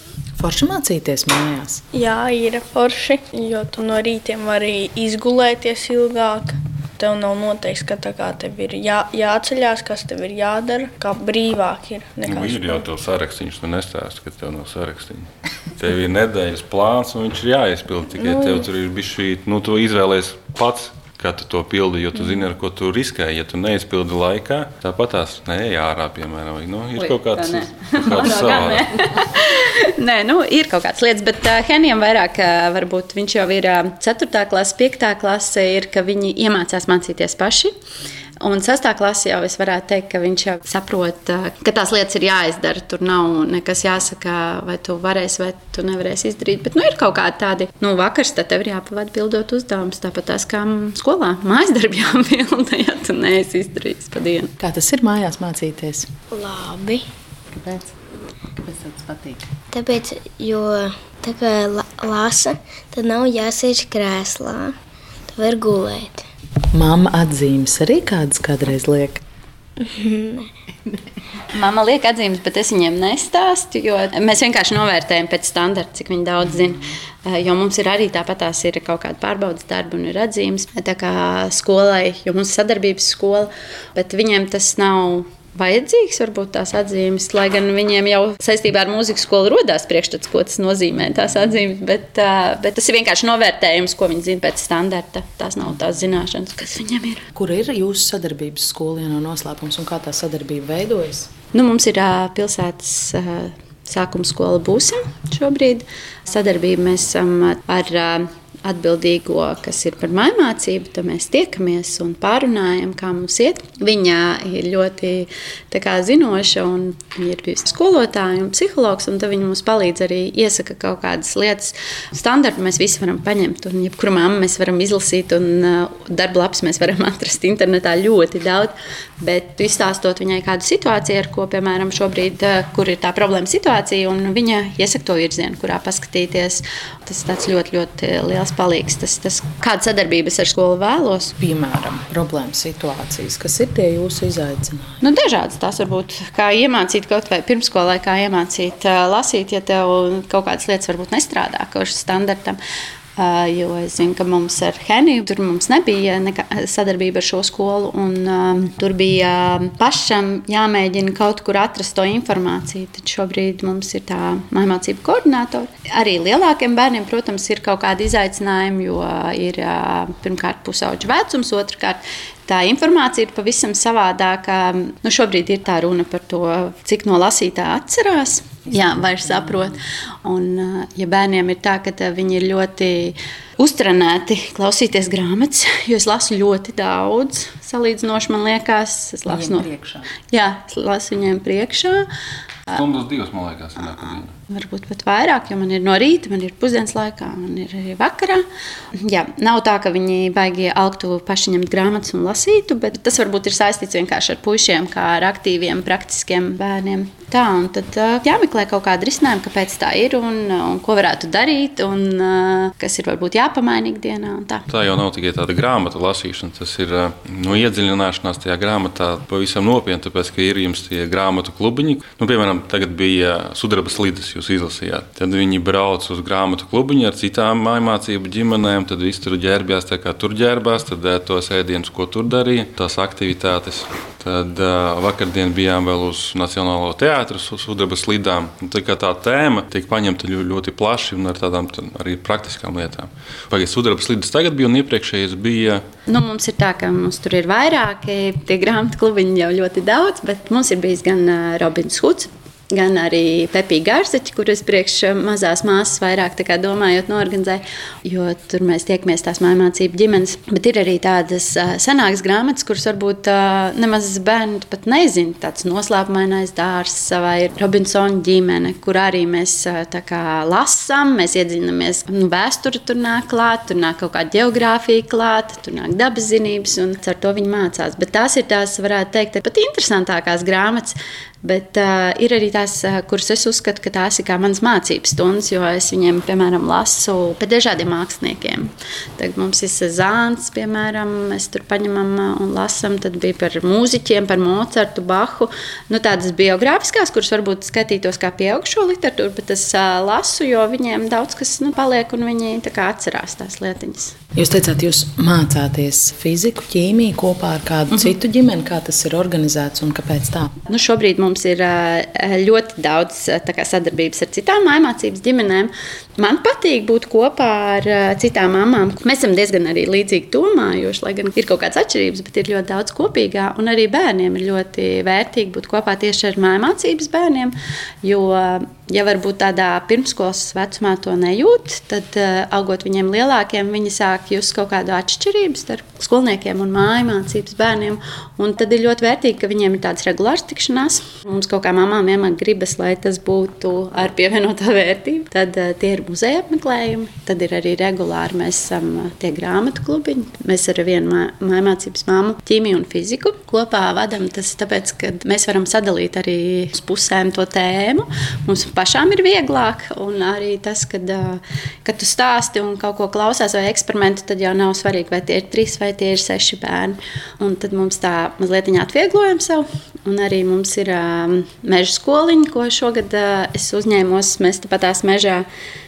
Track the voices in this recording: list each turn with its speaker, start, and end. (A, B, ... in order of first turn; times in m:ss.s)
0:00.4-0:01.8 A
0:01.9-0:12.8 B
0:12.2-0:28.9 C
0:18.2-0:18.6 B
0:27.0-0:37.7 D
0:38.4-0:54.5 D
0:54.6-0:56.1 A
0:56.3-0:57.0 E
0:57.5-0:57.9 A
0:58.6-0:59.5 A
0:59.7-1:04.7 E
1:05.3-1:06.2 E
1:06.7-1:09.2 A
1:09.8-1:10.5 E
1:11.5-1:37.2 D
1:37.3-1:41.3 A
1:41.5-2:21.3 D
2:21.4-2:25.0 A
2:25.0-2:32.6 D
2:33.2-3:09.7 D
3:09.3-3:10.1 A
3:10.3-3:12.1 D
3:12.7-3:14.3 C
3:14.5-3:18.4 D
3:19.0-3:34.6 D
3:34.7-4:05.8 C
4:06.1-5:04.1 D
5:04.3-5:10.5 A
5:10.7-6:15.5 D